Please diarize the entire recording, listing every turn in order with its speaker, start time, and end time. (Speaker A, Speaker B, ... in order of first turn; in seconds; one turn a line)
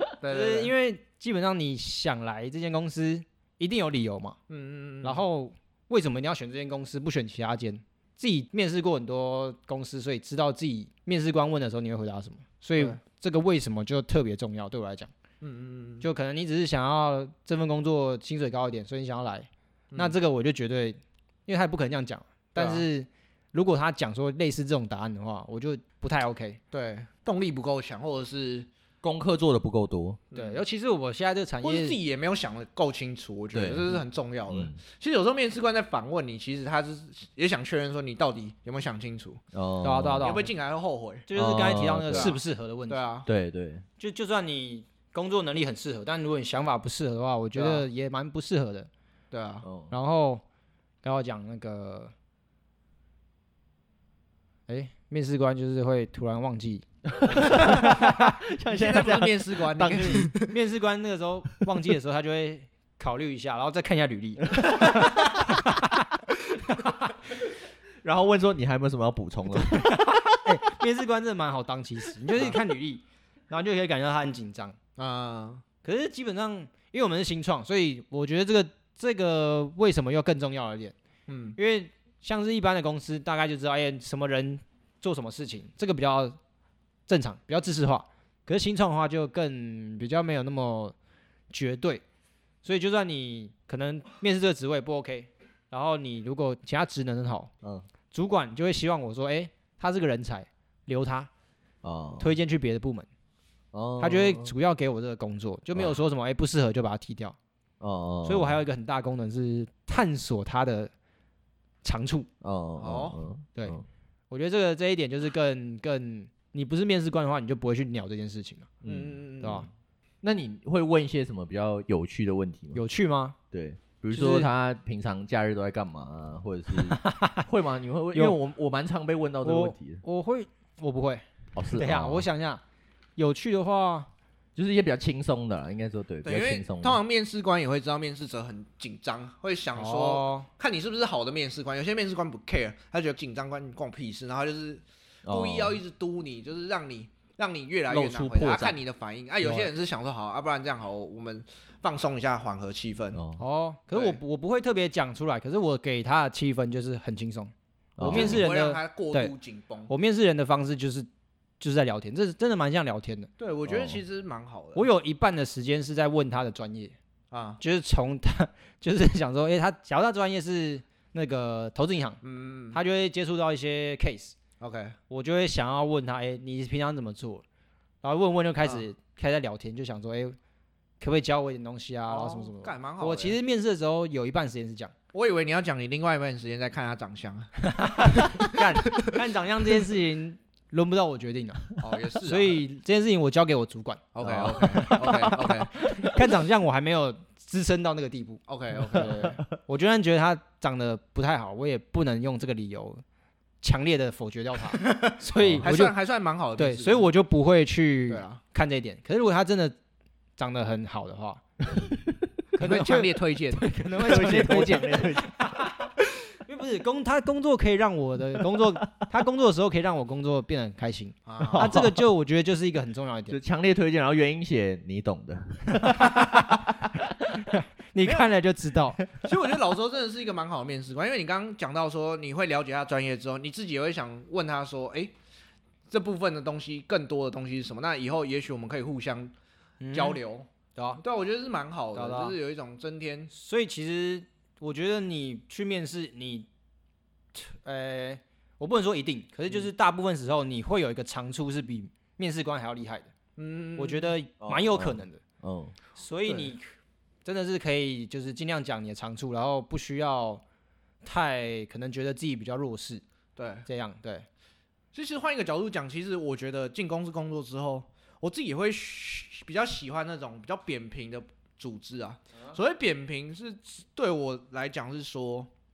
Speaker A: 0.2-0.7
Speaker B: 0.3-4.4
Speaker A: 4.5-5.2
Speaker B: 5.0-15.1
Speaker A: 15.4-16.0
Speaker B: 16.0-26.6
Speaker A: 22.6-22.8
Speaker A: 26.7-28.7
Speaker C: 29.0-30.2
Speaker A: 30.3-30.6
Speaker B: 30.3-32.0
Speaker A: 31.6-39.4
Speaker C: 33.5-34.8
Speaker C: 39.5-40.3
Speaker B: 39.8-40.5
Speaker A: 40.2-41.3
Speaker B: 41.3-43.0
Speaker C: 41.4-42.3
Speaker A: 42.1-43.3
Speaker C: 43.2-43.8
Speaker B: 44.0-48.9
Speaker A: 47.5-47.9
Speaker A: 49.3-49.7
Speaker C: 49.6-49.9
Speaker B: 49.9-50.4
Speaker B: 51.0-52.1
Speaker B: 54.7-58.1
Speaker C: 57.1-60.3
Speaker A: 57.4-58.1
Speaker A: 58.7-60.5
Speaker B: 60.0-66.1
Speaker C: 68.0-70.2
Speaker B: 69.5-74.8
Speaker A: 75.0-75.6
Speaker B: 75.8-80.9
Speaker A: 81.3-81.6
Speaker B: 81.5-86.4
Speaker B: 87.1-90.9
Speaker B: 91.5-92.0
Speaker B: 92.6-97.5
Speaker B: 98.1-101.3
Speaker C: 101.8-102.3
Speaker B: 102.2-103.1
Speaker C: 103.7-104.5
Speaker B: 104.0-107.3
Speaker C: 107.8-108.6
Speaker B: 108.2-110.9
Speaker B: 111.8-112.3
Speaker C: 112.4-113.8
Speaker A: 112.8-113.2
Speaker B: 114.3-118.7
Speaker C: 118.8-119.6
Speaker A: 118.8-119.7
Speaker B: 119.4-119.7
Speaker C: 120.2-122.8
Speaker B: 122.7-123.4
Speaker C: 123.5-130.0
Speaker B: 124.1-124.5
Speaker B: 126.8-127.4
Speaker B: 129.4-132.6
Speaker C: 131.5-132.2
Speaker B: 133.2-134.1
Speaker C: 134.6-137.0
Speaker A: 136.2-153.2
Speaker B: 139.7-140.5
Speaker C: 145.2-145.8
Speaker C: 147.9-148.8
Speaker B: 149.4-149.7
Speaker C: 153.1-153.4
Speaker B: 153.4-159.3
Speaker A: 153.9-154.2
Speaker C: 158.0-158.4
Speaker A: 158.0-159.9
Speaker B: 159.9-161.1
Speaker B: 161.6-163.3
Speaker A: 163.4-164.8
Speaker C: 163.7-164.0
Speaker B: 164.7-166.9
Speaker A: 167.3-167.6
Speaker B: 167.6-172.2
Speaker A: 172.2-172.8
Speaker B: 172.7-174.3
Speaker A: 174.6-175.0
Speaker B: 175.1-177.4
Speaker B: 178.0-180.3
Speaker B: 181.0-184.9
Speaker A: 182.1-183.4
Speaker A: 185.1-187.5
Speaker B: 187.6-203.0
Speaker A: 188.1-188.5
Speaker A: 191.8-192.6
Speaker A: 194.2-195.8
Speaker A: 198.5-199.2
Speaker B: 203.6-205.9
Speaker C: 205.4-205.7
Speaker A: 205.6-207.1
Speaker B: 206.6-209.8
Speaker A: 208.1-208.4
Speaker B: 210.4-211.4
Speaker C: 211.8-212.1
Speaker B: 212.5-215.9
Speaker A: 212.6-213.7
Speaker C: 214.0-215.7
Speaker B: 216.4-223.4
Speaker A: 221.3-221.8
Speaker C: 221.4-222.0
Speaker C: 223.3-227.4
Speaker B: 225.8-226.7
Speaker B: 227.3-229.0
Speaker A: 229.2-235.1
Speaker A: 235.9-239.3
Speaker B: 239.8-240.2
Speaker A: 239.9-240.5
Speaker B: 240.8-241.0
Speaker A: 241.0-243.3
Speaker B: 241.9-242.3
Speaker B: 243.3-246.5
Speaker B: 247.3-253.1
Speaker A: 253.4-254.1
Speaker B: 253.8-255.2
Speaker C: 254.4-255.7
Speaker B: 256.0-256.7
Speaker A: 256.3-256.5
Speaker B: 257.2-260.4
Speaker B: 261.0-263.0
Speaker A: 263.4-263.7
Speaker B: 263.6-264.2
Speaker A: 264.9-275.5